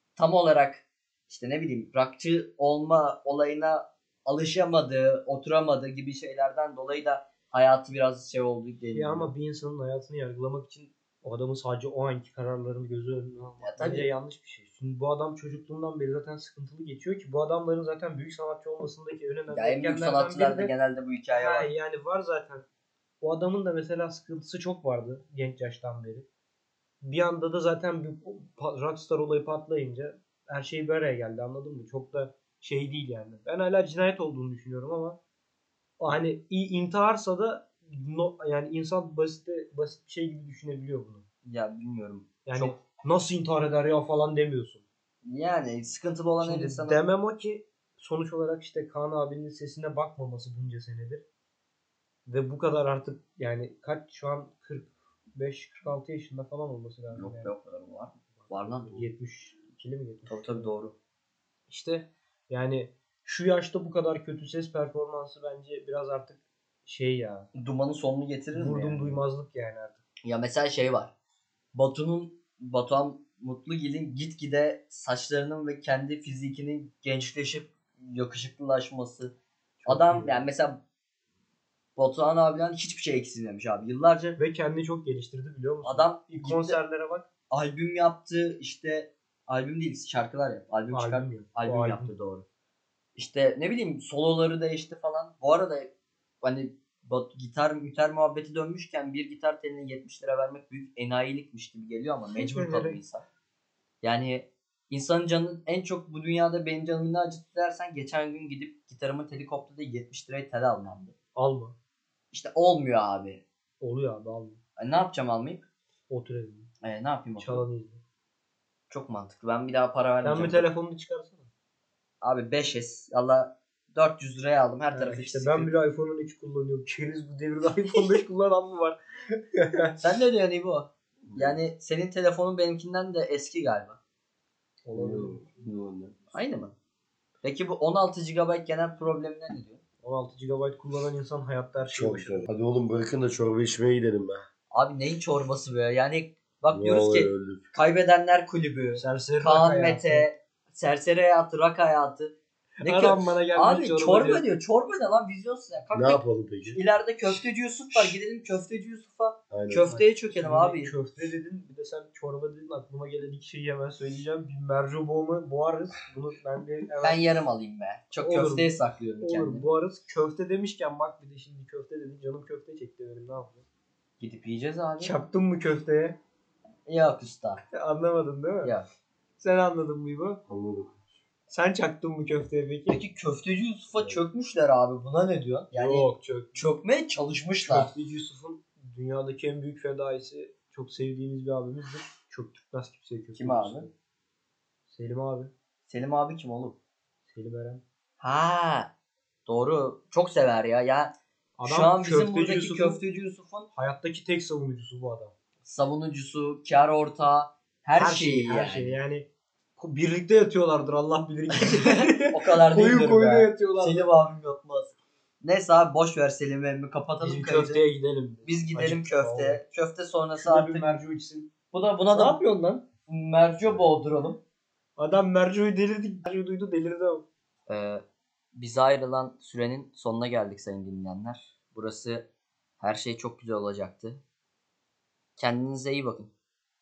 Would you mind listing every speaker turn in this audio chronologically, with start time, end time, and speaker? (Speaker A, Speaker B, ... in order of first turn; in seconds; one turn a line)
Speaker A: 0.2-9.3
Speaker B: 8.9-20.7
Speaker A: 13.6-14.1
Speaker A: 19.5-21.7
Speaker B: 21.3-22.6
Speaker B: 23.2-26.3
Speaker B: 27.0-35.2
Speaker B: 36.0-41.2
Speaker A: 41.5-42.8
Speaker B: 42.5-44.8
Speaker A: 45.2-47.0
Speaker B: 46.4-51.2
Speaker B: 52.3-57.5
Speaker A: 57.1-59.1
Speaker B: 58.4-60.7
Speaker A: 60.3-61.0
Speaker B: 61.7-67.5
Speaker A: 67.5-69.2
Speaker B: 68.5-70.0
Speaker A: 70.2-71.1
Speaker A: 71.7-79.3
Speaker B: 79.8-80.5
Speaker A: 79.9-80.8
Speaker A: 82.0-84.4
Speaker B: 84.4-87.3
Speaker A: 85.8-86.8
Speaker A: 87.5-92.5
Speaker B: 90.9-92.1
Speaker A: 93.2-95.9
Speaker A: 96.4-103.2
Speaker B: 102.3-103.0
Speaker A: 104.0-111.1
Speaker B: 111.3-111.8
Speaker A: 112.3-113.4
Speaker B: 113.8-114.6
Speaker A: 114.8-115.7
Speaker B: 116.1-116.7
Speaker A: 116.8-117.7
Speaker B: 117.4-118.0
Speaker A: 118.9-120.7
Speaker B: 120.2-121.5
Speaker A: 122.2-125.7
Speaker B: 124.9-130.0
Speaker A: 130.0-134.0
Speaker C: 131.2-131.6
Speaker B: 134.8-135.4
Speaker C: 134.9-136.3
Speaker A: 136.3-136.8
Speaker A: 137.4-139.8
Speaker B: 140.0-142.5
Speaker C: 141.9-144.5
Speaker A: 144.7-160.9
Speaker C: 146.7-147.6
Speaker B: 149.0-150.3
Speaker B: 152.8-154.4
Speaker C: 155.9-156.8
Speaker B: 157.9-158.2
Speaker C: 159.5-159.9
Speaker B: 159.9-167.4
Speaker A: 167.0-169.7
Speaker B: 168.2-173.7
Speaker A: 174.2-175.2
Speaker B: 175.0-176.2
Speaker A: 176.9-177.6
Speaker B: 177.7-178.8
Speaker B: 179.4-180.4
Speaker C: 180.5-181.1
Speaker B: 181.5-183.0
Speaker A: 182.9-187.9
Speaker C: 184.0-184.2
Speaker B: 185.7-186.6
Speaker B: 187.6-193.9
Speaker A: 193.3-193.9
Speaker B: 194.9-195.5
Speaker A: 195.9-196.8
Speaker B: 197.3-197.8
Speaker A: 198.2-198.9
Speaker A: 199.5-201.1
Speaker B: 201.6-203.0
Speaker A: 201.7-203.7
Speaker B: 203.8-205.3
Speaker A: 205.6-209.0
Speaker B: 208.0-214.1
Speaker A: 211.5-217.8
Speaker B: 217.2-219.6
Speaker A: 218.4-221.0
Speaker B: 220.4-221.5
Speaker A: 221.7-224.4
Speaker B: 222.1-222.8
Speaker C: 223.6-223.9
Speaker B: 225.0-227.2
Speaker A: 227.7-228.0
Speaker A: 228.6-232.3
Speaker A: 232.8-234.2
Speaker A: 235.4-236.3